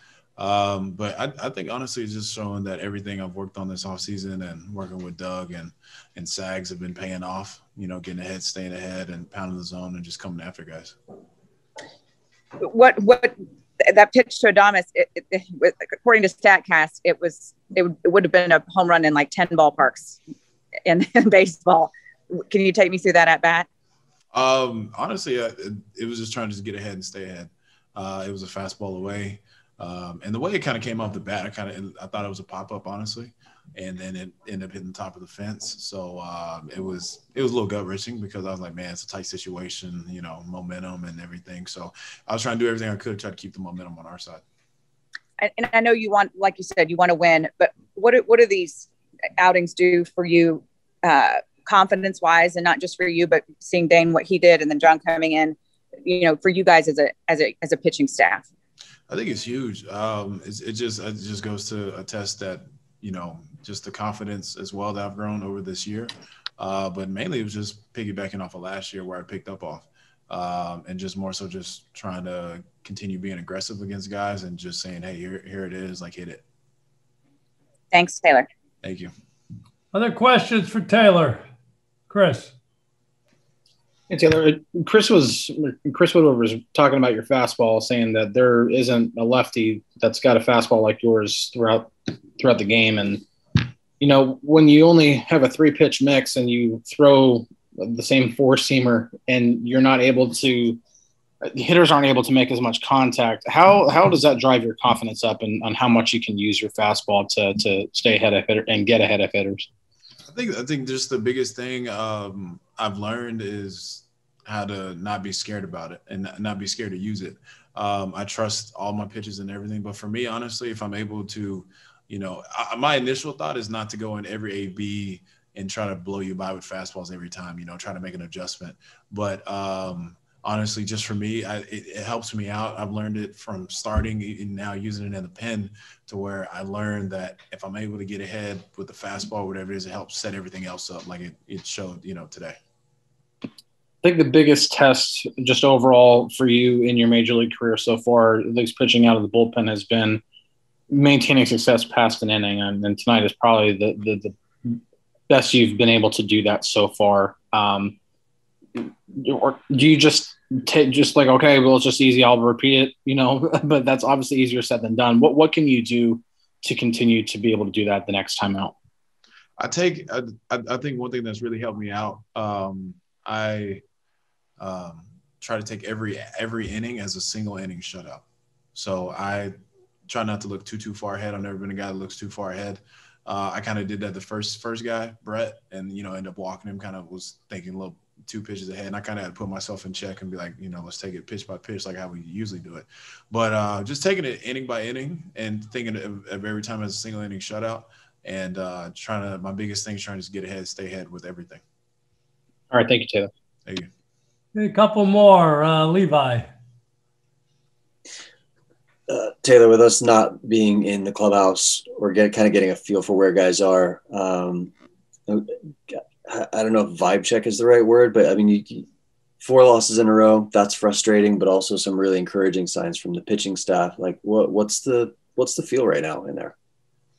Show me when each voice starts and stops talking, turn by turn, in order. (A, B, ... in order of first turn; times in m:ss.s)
0:00.4-0:11.0 A
0:12.6-0:20.2 B
0:20.9-0:23.7 B
0:24.3-0:44.4 A
0:45.4-0:48.9 B
0:49.4-0:58.4 B
0:59.1-1:16.4 A
1:17.9-1:18.5 B
1:18.8-1:19.1 A
1:19.9-1:21.4 C
1:22.1-1:22.5 C
1:24.1-1:40.8 D
1:41.4-1:49.7 D
1:50.3-2:22.6 A
2:24.0-2:30.2 D
2:30.9-2:38.0 D
2:38.8-2:48.8 D
2:49.6-2:53.8 A
2:54.6-2:59.5 A
3:00.1-3:21.6 A
3:22.7-3:23.3 D
3:24.6-3:26.5 C
3:29.1-3:34.7 E
3:35.3-3:38.9 E
3:39.4-3:46.6 E